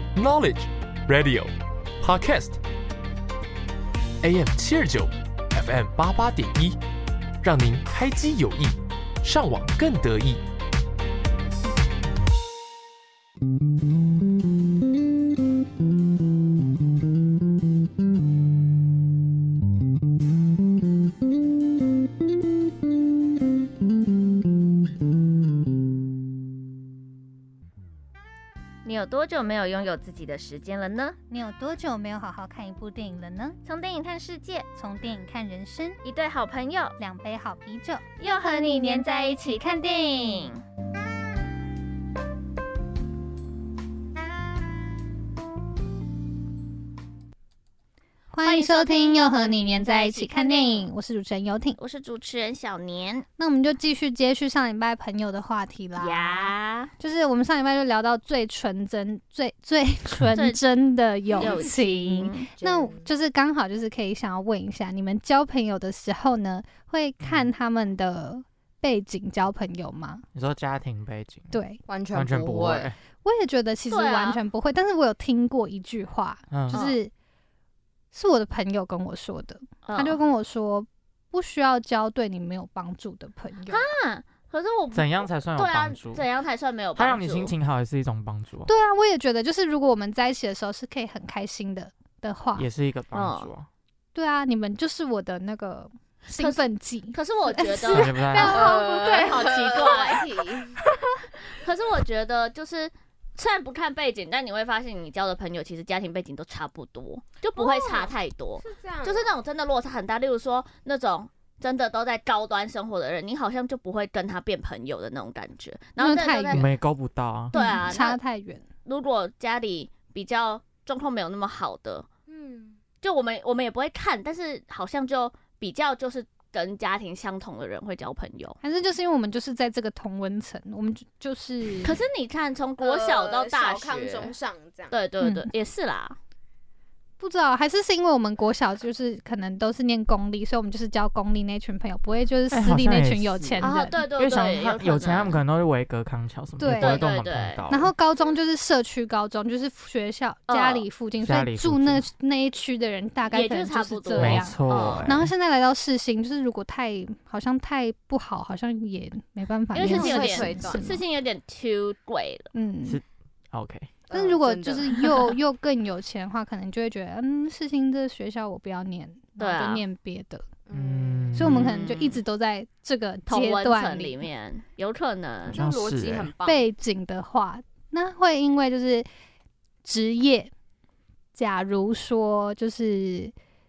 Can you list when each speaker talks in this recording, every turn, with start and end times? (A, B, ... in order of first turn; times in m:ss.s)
0:00.1-0:02.6 A
0:04.2-0:06.8 A
0:07.4-0:10.4 A
0:28.8-0:31.2 B
0:31.3-0:33.6 C
0:33.6-0:34.7 B
0:34.7-0:36.0 C
0:36.0-0:36.9 B
0:37.0-0:38.0 C
0:38.2-0:40.6 B
0:48.3-0:51.8 C
0:48.4-0:50.9 B
0:51.8-0:53.2 B
0:53.4-1:10.2 C
0:56.0-0:56.9 B
1:00.3-1:00.6 B
1:01.4-1:02.4 B
1:02.6-1:03.1 D
1:07.2-1:07.5 E
1:10.3-1:11.6 E
1:11.5-1:11.8 C
1:11.9-1:12.9 D
1:12.1-1:13.0 E
1:13.2-1:17.1 C
1:13.9-1:14.4 B
1:16.5-1:16.8 E
1:16.7-1:17.0 B
1:18.1-1:23.8 C
1:19.8-1:20.2 B
1:23.7-1:27.5 B
1:24.9-1:26.2 E
1:27.0-1:28.7 E
1:28.7-1:32.7 C
1:32.6-1:33.7 E
1:33.1-1:33.5 B
1:34.1-1:39.3 C
1:36.4-1:40.3 B
1:37.9-1:38.6 E
1:38.5-1:40.8 D
1:41.5-1:56.7 B
1:47.6-1:49.3 D
1:56.0-1:56.7 C
1:56.5-1:57.5 E
1:57.5-1:58.2 B
1:57.5-1:58.6 C
1:58.8-2:02.0 B
2:02.3-2:02.8 D
2:03.0-2:08.6 B
2:08.6-2:12.0 C
2:11.8-2:14.3 B
2:12.8-2:14.9 D
2:14.9-2:16.2 B
2:15.2-2:15.5 C
2:17.2-2:24.0 C
2:22.5-2:27.9 E
2:23.6-2:25.4 B
2:26.6-2:27.0 C
2:26.8-2:27.6 B
2:27.7-2:41.0 C
2:30.5-2:30.8 B
2:31.2-2:32.0 E
2:33.3-2:35.1 B
2:34.2-2:35.3 E
2:39.7-2:42.5 B
2:39.8-2:40.9 D
2:42.5-2:43.0 C
2:42.8-2:43.9 E
2:44.1-2:45.2 D
2:44.1-2:50.4 C
2:49.4-2:49.8 B
2:50.7-2:51.4 D
2:50.7-2:51.7 E
2:51.3-2:54.2 C
2:51.4-2:52.2 B
2:53.3-2:55.6 B
2:55.4-2:56.3 E
2:55.5-2:56.6 D
2:56.4-2:59.1 C
2:59.8-3:00.5 C
3:01.3-3:03.3 C